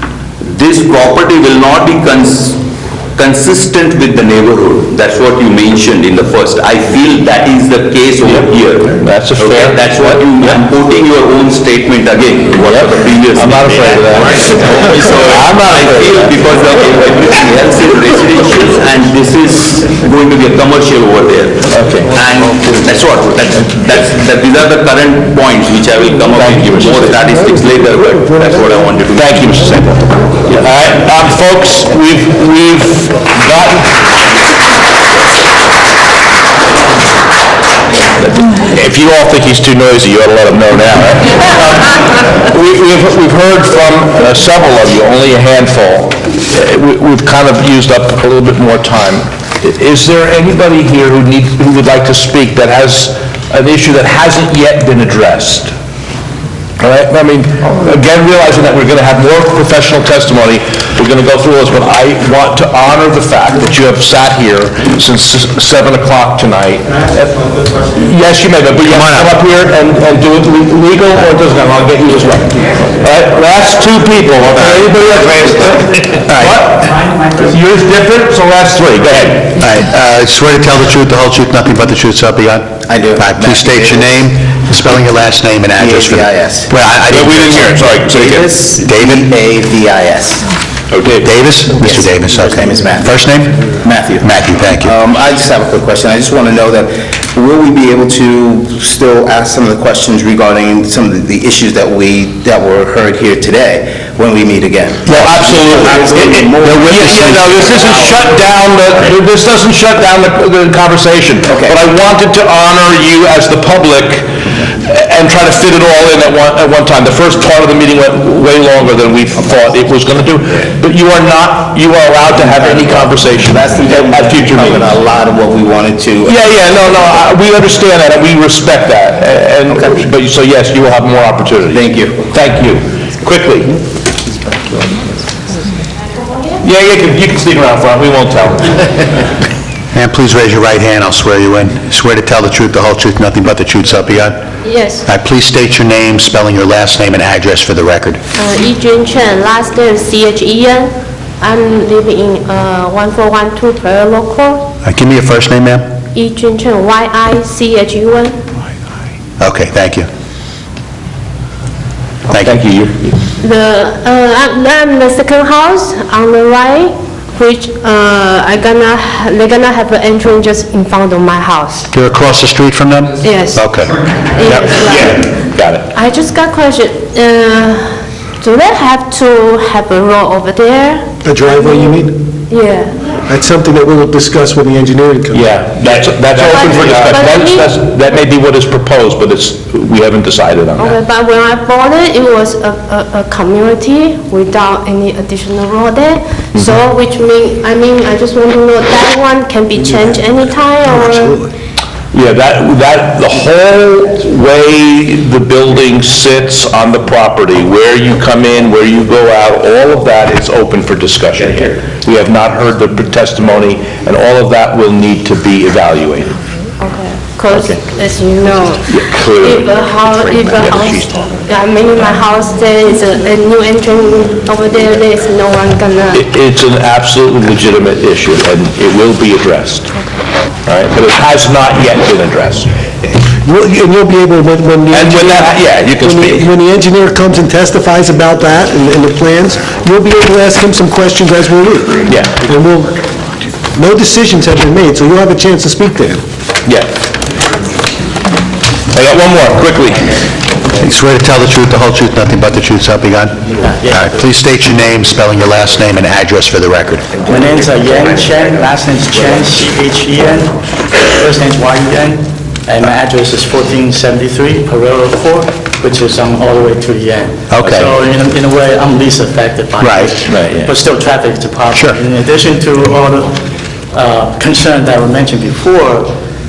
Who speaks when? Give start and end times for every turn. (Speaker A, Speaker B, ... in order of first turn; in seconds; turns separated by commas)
Speaker A: 0.4-2.6, Speaker A: 3.1-29.5, Speaker B: 9.0-10.5, Speaker B: 12.6-16.4, Speaker B: 21.7-22.2, Speaker B: 26.4-27.2, Speaker B: 29.1-33.9, Speaker B: 38.2-55.7, Speaker B: 56.8-79.6, Speaker C: 68.9-69.3, Speaker C: 76.3-76.7, Speaker C: 79.6-87.9, Speaker D: 82.9-84.2, Speaker D: 85.8-90.4, Speaker B: 87.0-88.5, Speaker C: 88.8-89.3, Speaker B: 90.9-91.3, Speaker C: 91.2-93.6, Speaker D: 91.8-93.2, Speaker D: 93.7-94.3, Speaker C: 94.2-95.0, Speaker D: 94.8-108.1, Speaker B: 105.0-124.9, Speaker D: 111.5-111.8, Speaker D: 122.7-126.4, Speaker B: 126.2-133.8, Speaker D: 129.7-130.0, Speaker D: 131.7-132.2, Speaker E: 136.3-136.6, Speaker B: 136.6-139.0, Speaker C: 139.9-144.4, Speaker E: 144.6-145.1, Speaker C: 145.0-148.2, Speaker E: 148.3-154.7, Speaker C: 154.8-155.9, Speaker E: 156.1-158.4, Speaker C: 159.4-160.1, Speaker C: 162.3-162.5, Speaker B: 162.4-162.9, Speaker E: 163.4-171.9, Speaker C: 171.9-173.9, Speaker E: 173.2-173.7, Speaker E: 174.3-175.2, Speaker B: 174.4-175.8, Speaker E: 175.9-181.9, Speaker F: 181.2-182.2, Speaker E: 182.5-183.1, Speaker F: 183.2-185.6, Speaker B: 185.3-190.9, Speaker E: 186.3-187.8, Speaker E: 190.8-201.4, Speaker F: 200.9-201.5, Speaker B: 202.1-216.3, Speaker E: 216.8-226.2, Speaker B: 217.5-217.8, Speaker B: 218.9-219.6, Speaker B: 220.3-221.2, Speaker B: 226.1-229.9, Speaker B: 230.7-232.7, Speaker F: 233.4-243.0, Speaker B: 234.9-236.5, Speaker B: 242.1-242.4, Speaker F: 243.7-246.2, Speaker B: 248.9-250.1, Speaker C: 250.8-257.1, Speaker G: 253.6-254.2, Speaker G: 257.3-273.4, Speaker C: 267.5-267.9, Speaker C: 269.8-270.2, Speaker B: 270.3-270.7, Speaker C: 271.7-272.0, Speaker G: 273.9-276.1